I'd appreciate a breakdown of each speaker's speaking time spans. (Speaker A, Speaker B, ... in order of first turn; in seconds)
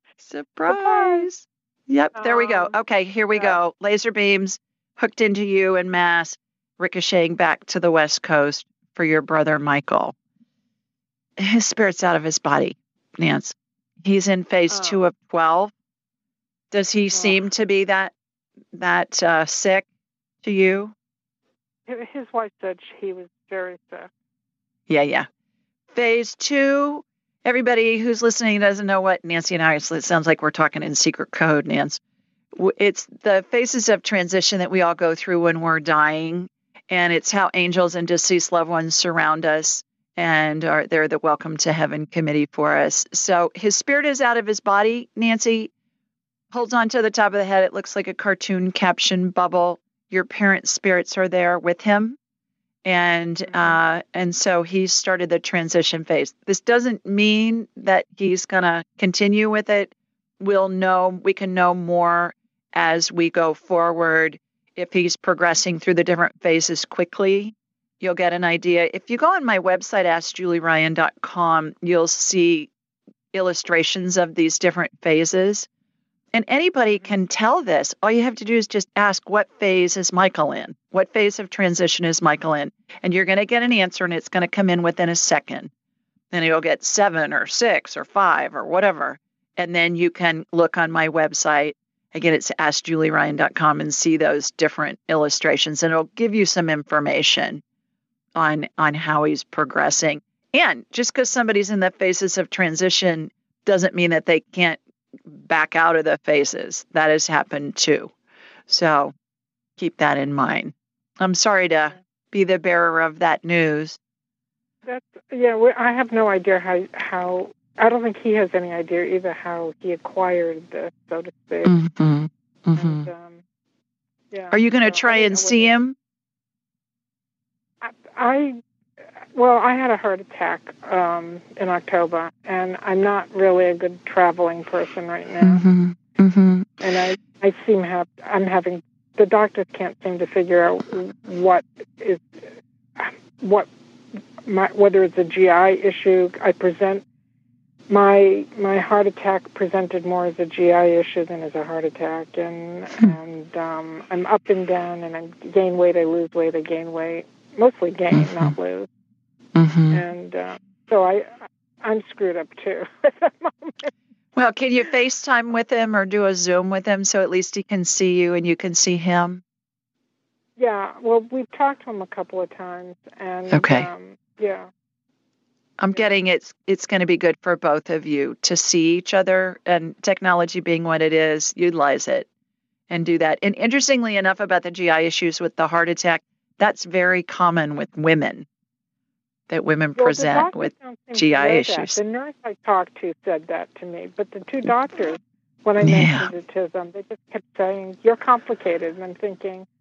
Speaker A: 0.2-10.1, 11.4-15.7, 16.7-18.1, 18.7-19.9, 20.4-20.9, 24.9-25.3, 25.9-32.0, 32.5-45.7, 46.5-52.2, 52.8-72.7, 73.3-75.7, 76.3-85.7, 86.3-97.6, 98.3-108.1, 108.7-109.1, 109.8-114.0, 121.6-123.1, 124.5-125.9, 135.4-136.7, 158.1-158.5, 159.5-160.0, 164.3-169.4, 173.5-173.9, 175.8-182.3, 182.9-188.4, 189.5-192.0, 195.8-196.3
Speaker B: 0.7-1.3, 2.1-2.8, 14.7-15.0, 17.1-17.4, 21.9-24.1, 53.5-53.8, 114.9-121.7, 122.8-123.4, 124.3-125.8, 127.8-128.6, 129.3-135.6, 136.8-142.4, 143.0-143.7, 144.4-147.0, 147.9-158.9, 159.9-163.9, 170.6-174.7, 190.0-199.7